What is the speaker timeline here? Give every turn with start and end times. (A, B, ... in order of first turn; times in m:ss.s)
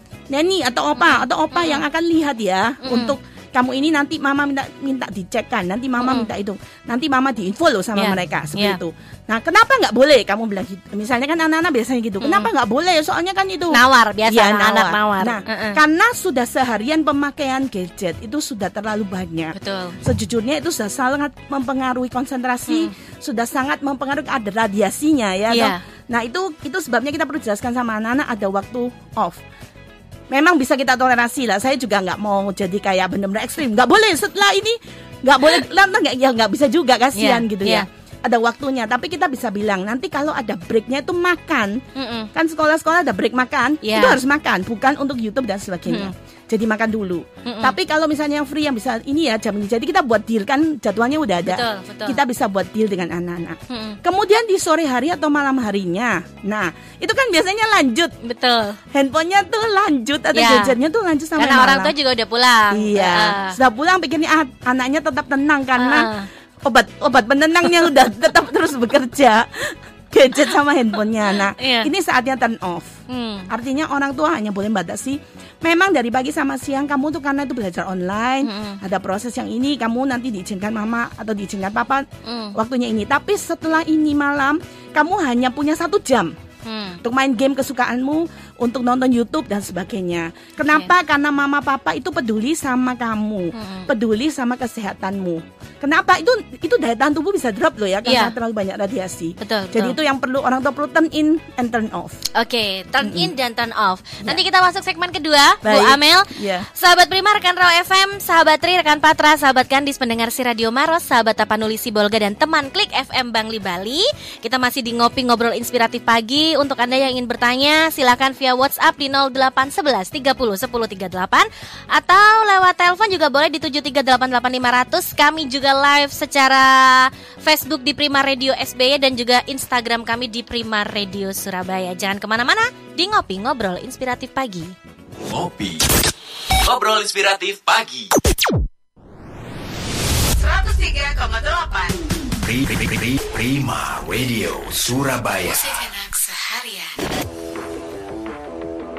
0:00.3-0:29.4 A
0:01.0-0:01.8 B
0:02.8-0:03.1 B
0:06.0-0:06.3 B
0:08.0-0:08.8 B
0:12.2-0:12.5 B
0:13.7-0:15.8 B
0:19.5-0:20.0 B
0:22.7-0:22.9 B
0:25.5-0:25.8 B
0:30.3-0:41.8 A
0:37.1-0:37.8 B
0:42.0-0:42.3 B
0:42.3-0:58.1 A
0:43.8-0:44.2 B
0:45.9-0:46.1 B
0:47.4-0:47.8 B
0:51.5-0:52.2 B
0:53.7-0:54.0 B
0:58.2-0:58.8 B
0:58.9-1:01.9 A
1:00.3-1:00.8 B
1:01.4-1:03.6 B
1:02.7-1:06.1 A
1:05.8-1:06.3 B
1:06.6-1:12.9 A
1:11.5-1:11.9 B
1:13.1-1:13.5 B
1:13.5-1:26.3 A
1:18.4-1:18.8 B
1:22.2-1:22.5 B
1:26.6-1:27.0 B
1:27.0-1:42.2 A
1:33.5-1:33.9 B
1:38.0-1:38.3 B
1:39.4-1:39.9 B
1:42.3-2:14.7 B
1:43.0-1:43.3 A
1:45.6-1:46.7 A
2:15.2-2:15.8 C
2:16.6-2:18.1 C
2:20.4-2:22.0 D
2:22.4-2:25.8 C
2:25.4-2:27.0 D